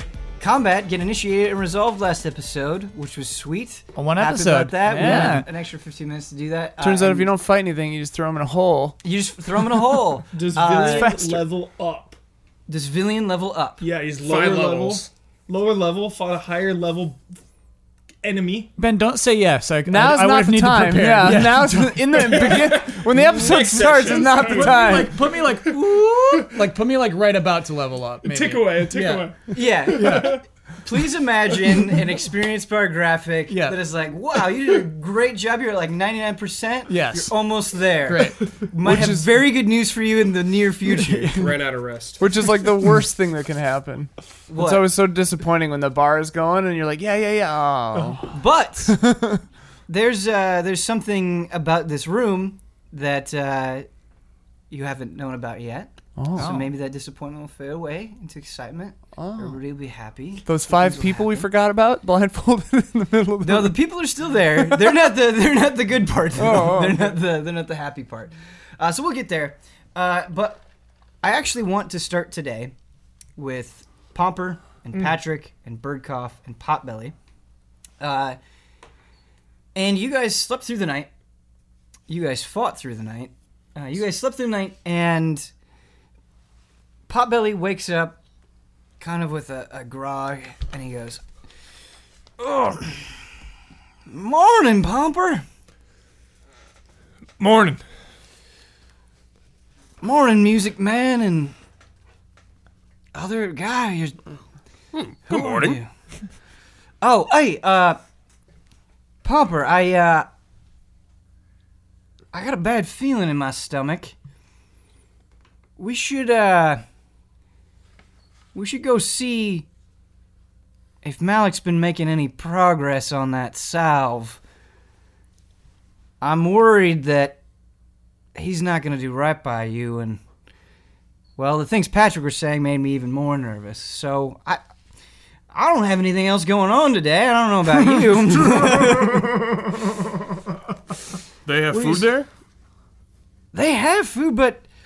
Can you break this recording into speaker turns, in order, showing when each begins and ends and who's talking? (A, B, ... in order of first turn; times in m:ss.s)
0:00.4-0:07.3 A
0:04.0-0:05.5 B
0:04.8-0:05.5 C
0:06.8-0:09.0 C
0:09.0-0:11.1 A
0:10.3-0:12.2 D
0:10.7-0:11.5 C
0:12.7-0:13.8 A
0:13.8-0:17.2 D
0:14.2-0:15.1 E
0:18.2-0:18.7 D
0:18.8-0:22.7 B
0:19.8-0:25.3 C
0:22.2-0:26.7 D
0:23.1-0:24.4 E
0:24.4-0:30.4 B
0:28.2-0:30.4 D
0:29.5-0:41.5 A
0:31.6-0:32.0 D
0:33.5-0:33.8 B
0:36.9-0:37.3 B
0:38.0-0:38.4 B
0:38.8-0:39.3 C
0:41.3-0:42.2 E
0:42.2-0:49.4 C
0:44.5-0:44.8 A
0:48.3-0:49.0 A
0:49.9-0:53.9 A
0:54.7-1:01.5 A
0:56.2-0:56.5 C
0:56.4-0:56.7 B
0:59.2-0:59.6 C
1:00.4-1:03.8 C
1:03.4-1:10.6 A
1:06.4-1:07.2 C
1:11.2-1:12.7 A
1:13.4-1:17.1 A
1:18.0-1:18.4 A
1:19.7-1:21.1 A
1:22.1-1:25.5 A
1:27.1-1:28.2 A
1:29.0-1:31.2 A
1:32.4-1:33.1 A
1:34.1-1:35.4 A
1:37.4-1:37.8 D
1:40.0-1:41.5 A
1:43.1-1:44.2 A
1:44.9-1:45.8 E
1:45.3-1:45.9 A
1:47.0-1:48.0 A
1:49.2-1:50.3 A
1:52.3-1:54.1 A
1:55.8-1:56.8 A
1:58.5-1:59.7 A
2:01.0-2:04.4 A
2:06.2-2:07.4 A
2:08.3-2:10.2 A
2:11.4-2:14.6 A
2:15.5-2:19.6 A
2:21.4-2:22.3 E
2:21.7-2:22.0 A
2:23.5-2:24.6 A